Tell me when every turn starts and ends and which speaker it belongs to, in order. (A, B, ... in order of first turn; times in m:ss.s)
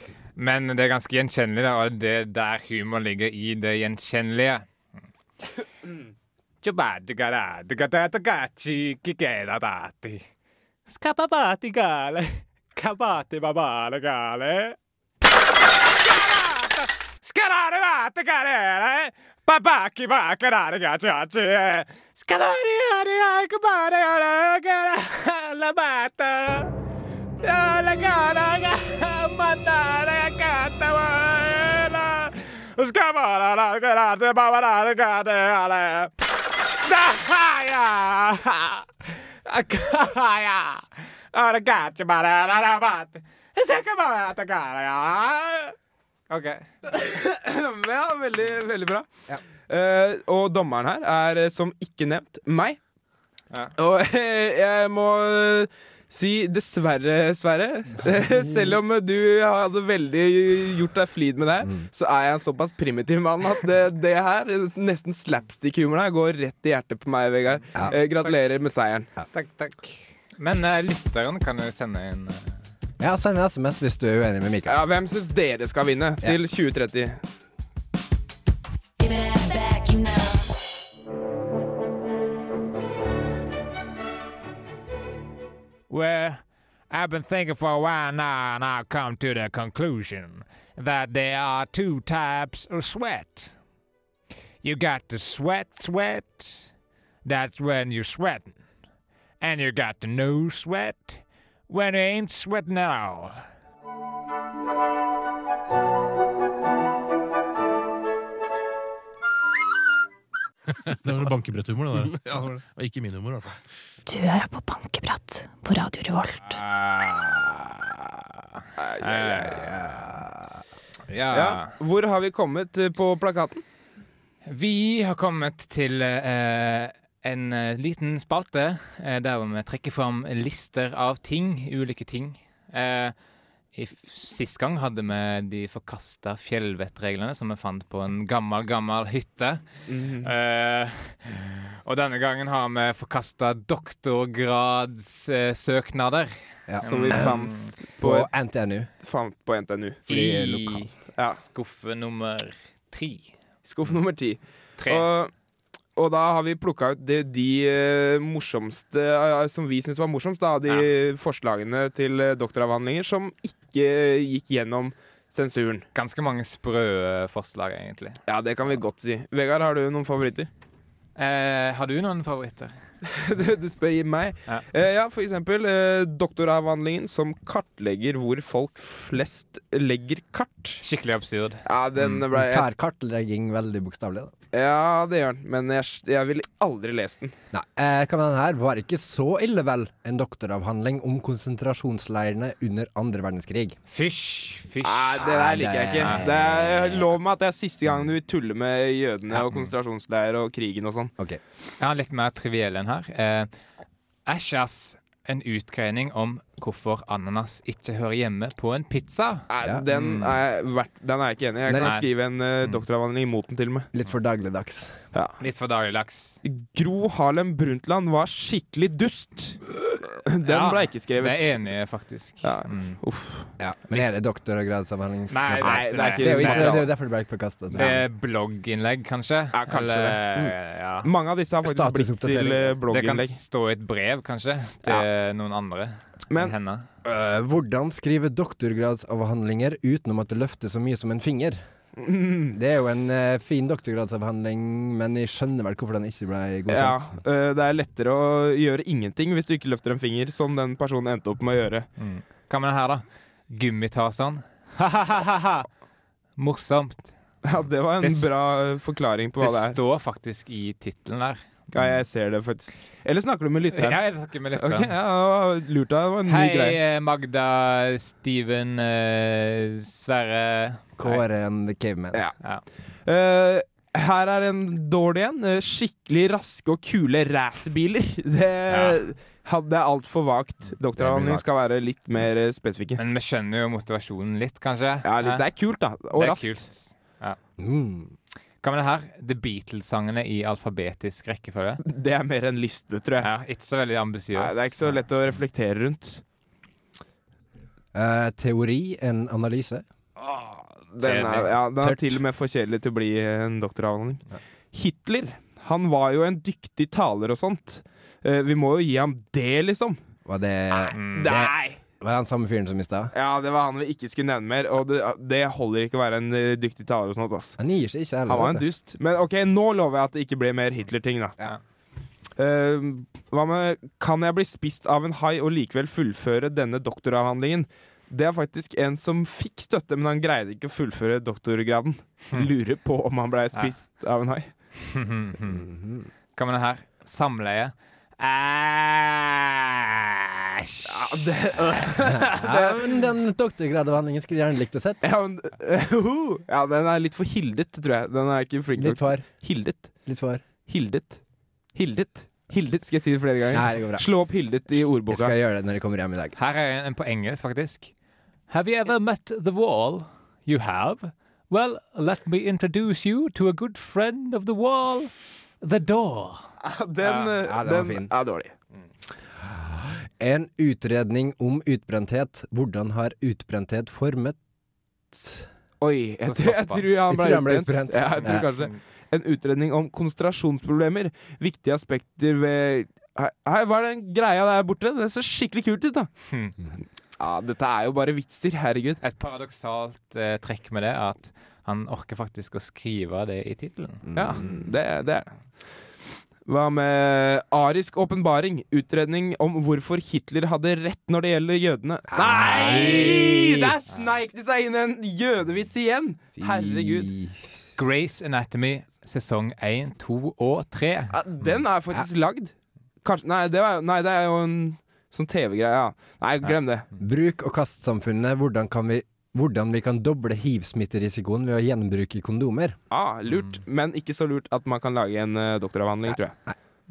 0:00.4-0:04.6 A
0:06.6-0:10.2 A
0:10.9-0:14.8 A
0:16.0-0:26.7 A
0:27.4-0:36.1 A
0:36.8-0:45.7 A
0:46.3-0:46.6 A
0:46.8-0:49.1 B
0:49.7-0:52.8 B
0:53.8-1:09.1 B
1:07.9-1:08.3 A
1:09.3-1:12.6 A
1:13.0-1:14.8 C
1:14.6-1:17.2 B
1:25.9-1:33.5 A
1:34.6-1:36.6 A
1:37.2-1:38.5 A
1:39.4-1:43.4 A
1:50.8-1:53.6 D
1:54.0-1:56.6 E
1:56.5-1:58.3 A
1:58.8-1:59.8 B
1:59.0-1:59.9 A
1:59.9-2:00.4 C
2:01.1-2:01.7 A
2:01.3-2:03.6 B
2:04.5-2:13.1 A
2:13.7-2:19.6 A
2:19.9-2:20.3 B
2:20.2-2:27.7 A
2:26.7-2:27.5 C
2:26.8-2:28.3 B
2:28.0-2:28.9 C
2:29.0-2:30.0 B
2:30.1-2:30.9 C
2:30.1-2:33.3 A
2:33.6-2:35.3 B
2:34.8-2:35.1 A
2:36.0-2:45.8 B
2:45.9-2:48.2 A
2:48.3-2:50.5 B
2:51.2-2:52.7 A
2:53.0-3:00.8 B
3:00.8-3:02.2 A
3:01.6-3:02.7 B
3:02.3-3:04.3 C
3:04.5-3:07.3 B
3:07.5-3:13.8 C
3:13.9-3:15.2 A
3:14.8-3:21.1 B
3:15.2-3:17.0 C
3:16.0-3:16.3 A
3:21.8-3:23.5 A
3:24.2-3:30.4 A
3:29.5-3:33.9 B
3:33.9-3:35.0 C
3:35.1-3:35.4 B
3:35.4-3:36.3 A
3:36.4-3:41.6 B
3:40.4-3:43.0 A
3:42.4-3:43.5 B
3:43.6-3:48.0 C
3:45.3-3:46.8 A
3:45.6-3:46.9 B
3:47.7-3:51.1 A
3:49.5-3:50.2 B
3:51.0-3:53.4 B
3:51.6-3:52.8 C
3:52.9-3:56.8 A
3:57.0-4:01.6 C
4:02.0-4:02.5 B
4:02.5-4:07.1 C
4:06.7-4:11.9 B
4:12.0-4:15.7 A
4:16.4-4:17.1 A
4:17.4-4:19.8 B
4:18.0-4:18.3 A
4:19.4-4:21.4 A
4:21.7-4:24.0 B
4:23.7-4:24.9 A
4:24.5-4:26.8 B
4:26.3-4:31.2 A
4:31.0-4:32.2 C
4:33.0-4:43.0 B
4:38.7-4:39.0 A
4:41.0-4:41.5 C
4:43.0-4:45.4 A
4:45.0-4:46.7 B
4:46.1-4:47.4 A
4:47.6-4:48.1 C
4:48.6-4:51.8 A
4:51.8-4:53.3 B
4:53.2-4:55.0 A
4:54.3-4:56.2 B
4:57.9-4:59.8 C
5:00.2-5:10.0 B
5:01.0-5:01.5 A
5:01.8-5:02.2 C
5:10.2-5:13.1 C
5:10.7-5:11.8 B
5:10.9-5:11.3 A
5:13.1-5:17.6 B
5:17.6-5:18.6 C
5:18.3-5:21.4 B
5:22.4-5:34.5 B
5:34.8-5:35.6 A
5:35.4-5:36.1 C
5:36.4-5:41.2 A
5:40.9-5:43.0 B
5:42.0-5:45.0 C
5:45.0-5:49.9 B
5:48.8-5:49.3 C
5:50.0-5:50.4 C
5:50.7-5:51.2 B
5:51.7-5:55.3 B
5:53.5-5:54.0 C
5:55.1-5:56.4 C
5:56.4-5:57.9 A
5:58.5-6:06.4 A
6:06.6-6:08.5 B
6:07.4-6:08.1 C
6:09.4-6:14.4 C
6:15.1-6:15.5 C
6:15.8-6:26.1 B
6:16.2-6:16.9 A
6:17.1-6:18.5 C
6:18.3-6:18.7 A
6:27.2-6:29.0 B
6:29.0-6:34.0 A
6:34.1-6:34.5 C
6:34.1-6:35.3 B
6:36.4-6:47.1 B
6:42.1-6:43.7 C
6:42.4-6:43.1 A
6:46.4-6:47.6 C
6:47.8-6:51.2 A
6:51.1-6:56.9 B
6:57.0-7:02.8 C
7:02.9-7:06.4 B